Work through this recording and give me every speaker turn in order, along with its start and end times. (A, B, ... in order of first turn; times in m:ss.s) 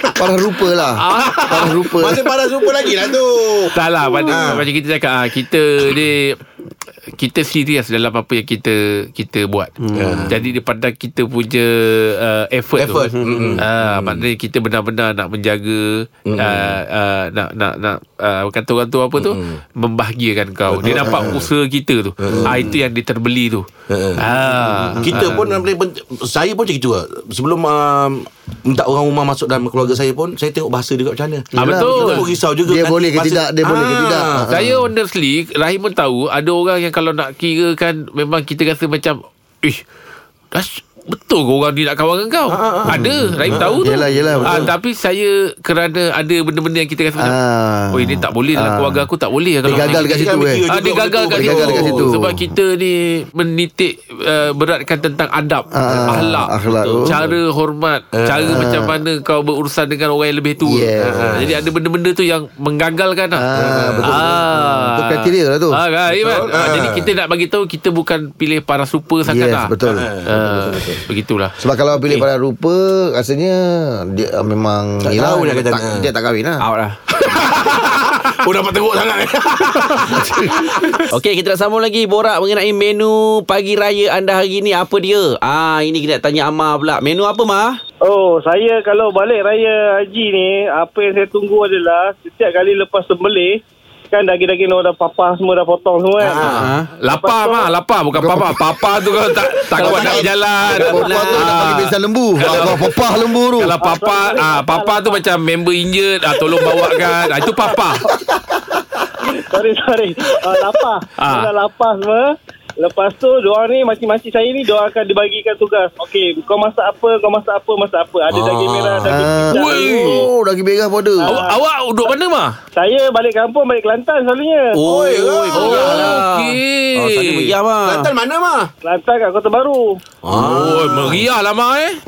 0:00.1-0:02.3 A
0:00.9-0:01.9 B
0:01.1-0:04.7 C
0:03.7-0:06.4 B
0:07.1-0:09.7 B
0:09.8-0:10.3 D
0:09.9-0:10.4 C
0:10.3-0:23.6 B
0:12.8-0:14.2 C
0:12.9-0:13.6 D
0:16.3-0:16.8 C
0:19.2-0:19.6 C
0:20.7-0:21.5 C
0:20.8-0:21.4 A
0:22.2-0:22.6 C
0:22.3-0:22.6 A
0:23.9-0:24.2 C
0:24.2-0:25.4 B
0:24.9-0:25.3 A
0:25.0-0:34.5 C
0:31.5-0:34.9 A
0:31.6-0:32.3 B
0:34.5-0:39.8 B
0:40.5-0:47.4 B
0:42.5-0:44.7 C
0:42.9-0:44.7 A
0:47.2-0:49.1 A
0:47.9-0:56.5 B
0:49.6-0:50.6 A
0:49.6-0:52.1 C
0:51.3-0:52.5 A
0:55.7-0:57.2 A
0:55.9-0:56.2 C
0:56.7-0:57.2 D
0:57.0-1:03.5 B
0:58.2-0:58.7 C
0:58.5-0:59.0 A
1:00.6-1:01.4 A
1:01.0-1:01.5 C
1:03.3-1:05.8 A
1:03.6-1:04.3 C
1:04.0-1:11.6 B
1:06.2-1:07.1 C
1:09.2-1:11.0 A
1:09.9-1:10.3 C
1:11.6-1:16.6 A
1:12.0-1:12.2 D
1:15.0-1:16.0 C
1:16.6-1:17.0 D
1:17.1-1:21.1 C
1:20.1-1:20.5 A
1:21.1-1:27.8 D
1:28.0-1:36.5 E
1:36.2-1:36.7 C
1:36.5-1:36.9 D
1:37.0-1:42.9 B
1:37.1-1:37.7 E
1:38.1-1:38.6 A
1:39.7-1:43.7 A
1:39.8-1:40.2 E
1:40.8-1:41.4 E
1:43.6-1:48.0 B
1:43.8-1:45.2 E
1:46.4-1:48.1 E
1:49.3-2:00.2 E
1:51.2-1:51.5 B
1:58.3-1:59.2 C
1:59.0-2:01.4 A
1:59.5-2:00.3 B
2:01.2-2:01.6 E
2:01.2-2:02.5 B
2:02.7-2:04.8 E
2:04.7-2:08.1 D
2:04.8-2:06.2 C
2:05.5-2:07.5 B
2:07.8-2:08.7 C
2:08.8-2:10.0 E
2:10.2-2:11.2 C
2:10.3-2:12.0 B